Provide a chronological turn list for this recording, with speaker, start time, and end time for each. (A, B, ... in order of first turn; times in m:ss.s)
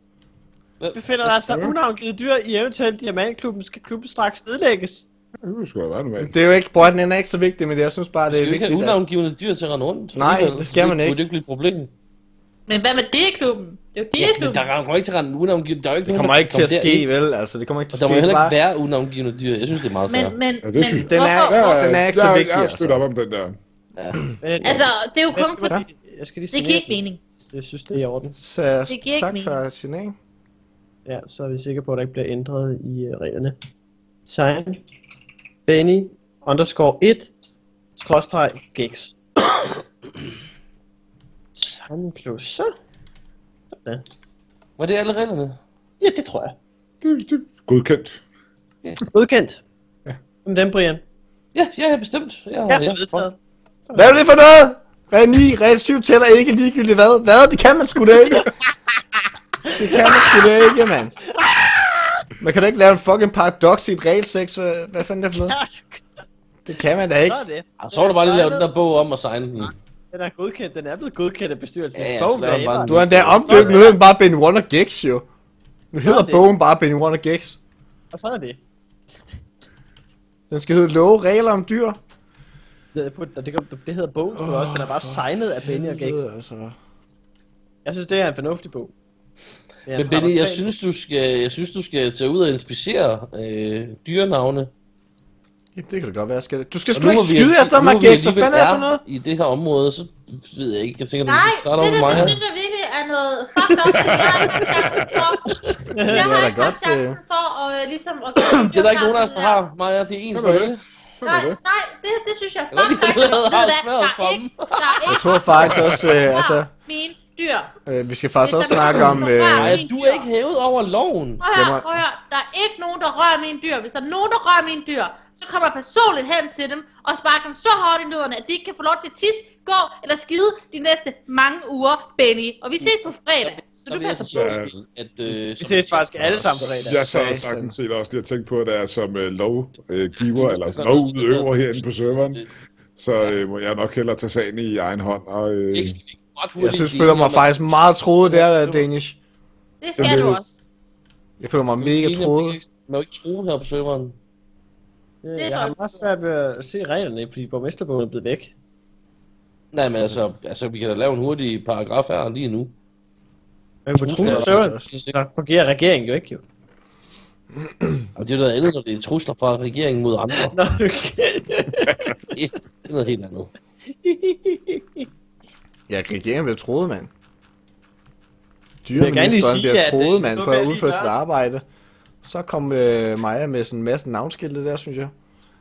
0:00.8-0:01.4 A
0:00.9-0:05.1 B
0:01.5-0:01.7 C
0:05.4-0:06.6 C
0:06.2-0:09.0 D
0:08.3-0:11.9 A
0:10.1-0:11.2 D
0:12.7-0:14.7 E
0:14.2-0:17.1 A
0:16.0-0:18.6 D
0:17.9-0:20.4 A
0:20.0-0:21.8 E
0:20.6-0:23.6 C
0:21.0-0:23.0 D
0:24.4-0:28.3 B
0:24.6-0:25.8 E
0:26.5-0:27.2 E
0:28.4-0:30.2 D
0:28.9-0:29.6 E
0:31.0-0:33.6 B
0:34.2-0:34.8 B
0:35.6-0:37.3 B
0:38.0-0:39.1 B
0:41.6-0:42.7 B
0:43.7-0:44.0 B
0:44.8-0:45.6 A
0:46.0-0:46.6 B
0:47.0-0:48.2 C
0:49.1-0:49.6 B
0:50.4-0:51.0 B
0:51.5-0:53.3 A
0:52.7-0:53.4 B
0:53.9-0:54.2 B
0:53.9-0:58.5 D
0:59.7-1:01.1 D
1:01.4-1:02.1 B
1:02.4-1:05.6 D
1:05.3-1:06.0 B
1:06.6-1:07.4 D
1:07.2-1:08.7 B
1:07.8-1:09.7 A
1:09.6-1:12.9 B
1:12.0-1:13.9 A
1:12.9-1:15.2 D
1:13.4-1:13.9 B
1:15.9-1:17.6 D
1:16.0-1:16.5 B
1:18.1-1:18.6 B
1:20.5-1:22.0 D
1:22.9-1:26.2 B
1:24.3-1:26.8 D
1:27.8-1:28.9 B
1:29.9-1:30.7 B
1:29.9-1:34.7 A
1:35.7-1:39.0 D
1:36.9-1:42.4 A
1:41.2-1:49.6 E
1:43.9-1:45.2 C
1:45.9-1:46.3 B
1:46.1-1:47.2 D
1:48.4-1:50.8 A
1:50.3-1:51.6 C
1:51.2-1:57.7 E
1:52.7-1:55.1 A
1:55.1-1:56.7 D
1:55.6-1:56.2 C
1:57.8-1:59.8 D
1:58.4-2:00.3 E
1:59.5-2:01.4 A
2:01.4-2:14.5 E
2:01.5-2:02.0 D
2:12.8-2:16.4 A
2:14.2-2:14.8 C
2:15.2-2:17.1 B
2:16.2-2:22.4 C
2:17.0-2:17.7 D
2:20.2-2:22.5 A
2:22.9-2:26.0 C
2:23.2-2:23.4 A
2:25.7-2:27.8 A
2:26.6-2:29.2 D
2:28.3-2:28.8 B
2:29.8-2:30.6 E
2:30.0-2:30.4 C
2:31.4-2:32.6 D
2:31.8-2:34.2 A
2:35.2-2:38.5 B
2:35.4-2:35.8 E
2:39.7-2:42.7 A
2:43.8-2:46.4 B
2:44.0-2:45.1 A
2:44.2-2:44.9 D
2:48.2-2:50.6 A
2:50.4-2:52.1 B
2:52.3-2:53.5 A
2:54.0-2:55.0 B
2:55.9-2:57.1 D
2:58.8-3:01.6 D
2:58.9-3:01.2 B
3:02.2-3:05.1 D